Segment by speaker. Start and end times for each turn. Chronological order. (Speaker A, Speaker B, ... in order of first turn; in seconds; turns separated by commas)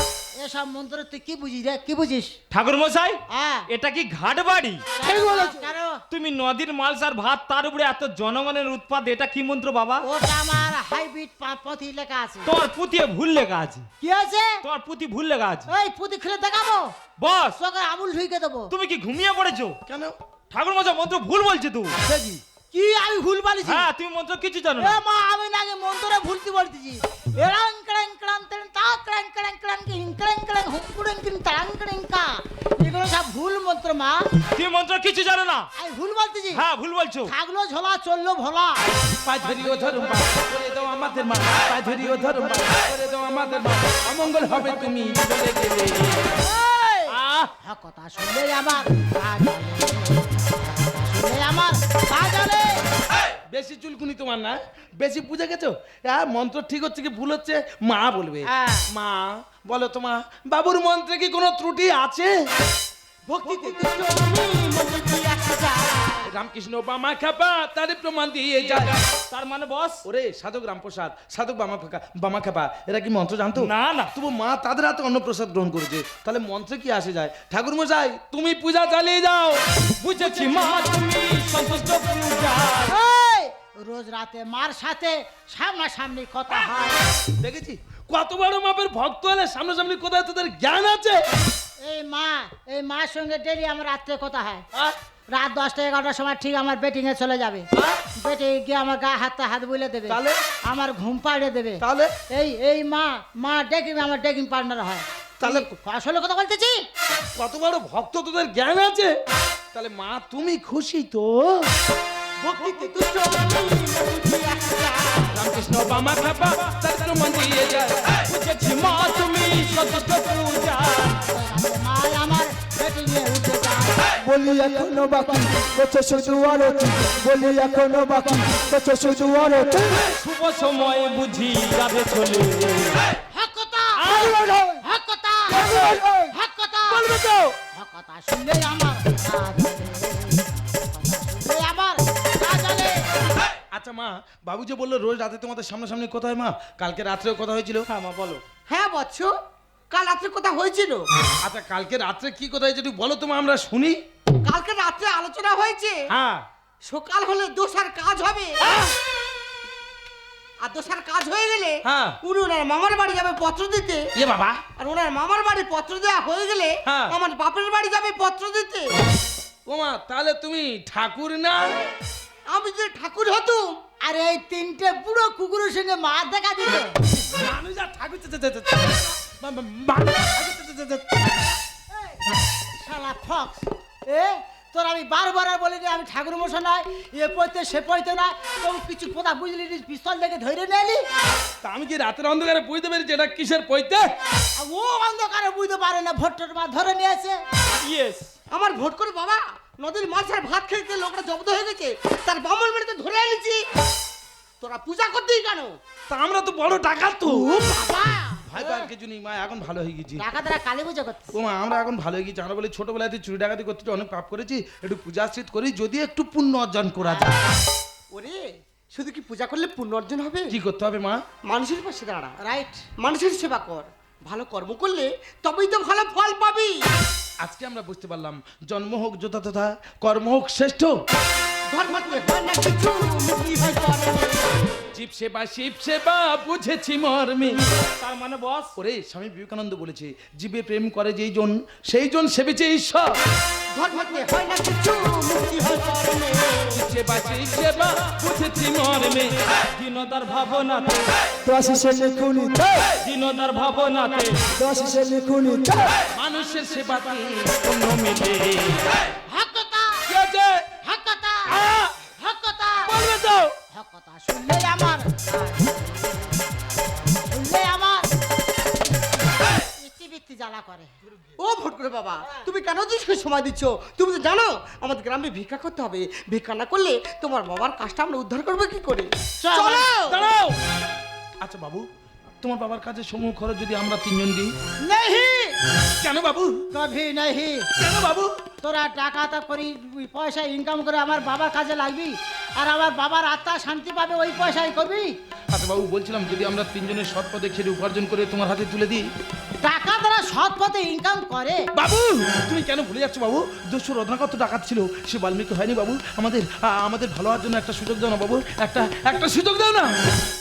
Speaker A: 0.4-2.4, Speaker B: 2.5-4.8, Speaker A: 3.3-3.7, Speaker A: 5.0-6.0, Speaker C: 5.0-5.7, Speaker B: 6.1-10.0, Speaker A: 10.0-12.5, Speaker B: 12.5-13.9, Speaker A: 14.0-14.6, Speaker B: 14.6-15.7, Speaker A: 15.7-16.9, Speaker B: 17.2-17.6, Speaker A: 17.6-18.7, Speaker B: 18.7-19.8, Speaker D: 19.9-20.1, Speaker B: 20.5-22.0, Speaker D: 22.1-22.4, Speaker A: 22.7-23.9, Speaker B: 23.6-25.0, Speaker A: 24.8-34.3, Speaker B: 34.5-35.7, Speaker A: 35.8-36.6, Speaker B: 36.5-37.3, Speaker A: 37.3-38.8, Speaker D: 39.2-46.3, Speaker A: 46.4-52.8, Speaker B: 47.1-47.5, Speaker D: 53.5-62.4, Speaker A: 58.5-58.9, Speaker E: 63.3-66.3, Speaker D: 66.3-69.0, Speaker B: 69.1-70.0, Speaker D: 70.1-79.6, Speaker B: 73.6-74.1, Speaker B: 80.0-82.9, Speaker A: 82.9-87.0, Speaker D: 87.4-91.2, Speaker A: 91.8-94.6, Speaker A: 95.3-106.8, Speaker D: 100.1-100.4, Speaker D: 101.8-102.1, Speaker D: 105.4-105.7, Speaker D: 107.4-109.2, Speaker D: 109.7-111.7, Speaker E: 112.4-115.3, Speaker D: 115.3-118.2, Speaker B: 118.3-121.2, Speaker A: 121.3-124.0, Speaker C: 124.2-130.1, Speaker B: 130.2-133.1, Speaker A: 133.3-137.1, Speaker C: 134.0-134.8, Speaker C: 135.5-136.3, Speaker D: 136.9-137.5, Speaker A: 137.7-143.0, Speaker D: 143.7-147.9, Speaker B: 147.9-148.4, Speaker E: 148.7-149.3, Speaker E: 149.9-151.1, Speaker D: 151.4-154.0, Speaker E: 154.4-156.0, Speaker D: 156.1-156.4, Speaker E: 156.9-158.8, Speaker E: 160.6-164.1, Speaker D: 161.8-162.2, Speaker D: 164.2-164.6, Speaker E: 164.8-168.9, Speaker D: 166.9-167.1, Speaker D: 169.7-171.7, Speaker E: 172.5-173.8, Speaker A: 174.0-177.0, Speaker D: 177.4-181.6, Speaker A: 181.9-182.2, Speaker A: 182.8-191.1, Speaker D: 191.6-194.1, Speaker A: 194.6-197.4, Speaker B: 197.8-198.3, Speaker E: 198.5-203.6, Speaker E: 204.6-205.8, Speaker D: 206.1-207.6, Speaker E: 207.3-208.4, Speaker D: 208.4-210.2, Speaker A: 208.6-208.9, Speaker A: 210.2-211.3, Speaker D: 211.3-217.4, Speaker E: 218.1-218.4, Speaker E: 218.9-220.6, Speaker D: 220.5-221.2, Speaker E: 221.5-222.3, Speaker A: 222.4-222.8, Speaker E: 223.0-226.8, Speaker D: 227.4-230.9, Speaker E: 231.7-234.7, Speaker D: 234.9-237.6, Speaker B: 238.0-238.7, Speaker D: 238.8-243.2, Speaker E: 243.7-246.7, Speaker D: 246.7-249.4, Speaker B: 249.8-251.1, Speaker C: 251.4-253.0, Speaker B: 253.0-254.3, Speaker C: 254.6-256.0, Speaker D: 256.1-257.7, Speaker B: 257.7-258.9, Speaker A: 259.3-260.1, Speaker D: 260.1-260.6, Speaker A: 260.8-262.9, Speaker D: 261.5-261.9, Speaker D: 262.9-263.5, Speaker A: 263.7-266.3, Speaker A: 267.3-268.1, Speaker A: 269.6-270.9, Speaker E: 271.4-280.1, Speaker A: 279.4-280.0, Speaker D: 280.1-280.6, Speaker D: 281.4-281.9, Speaker D: 282.4-284.5, Speaker A: 284.8-285.6, Speaker D: 286.0-286.6, Speaker A: 286.7-287.7, Speaker D: 287.8-288.4, Speaker A: 288.6-295.1, Speaker D: 295.5-299.1, Speaker A: 299.6-301.6, Speaker D: 301.8-309.9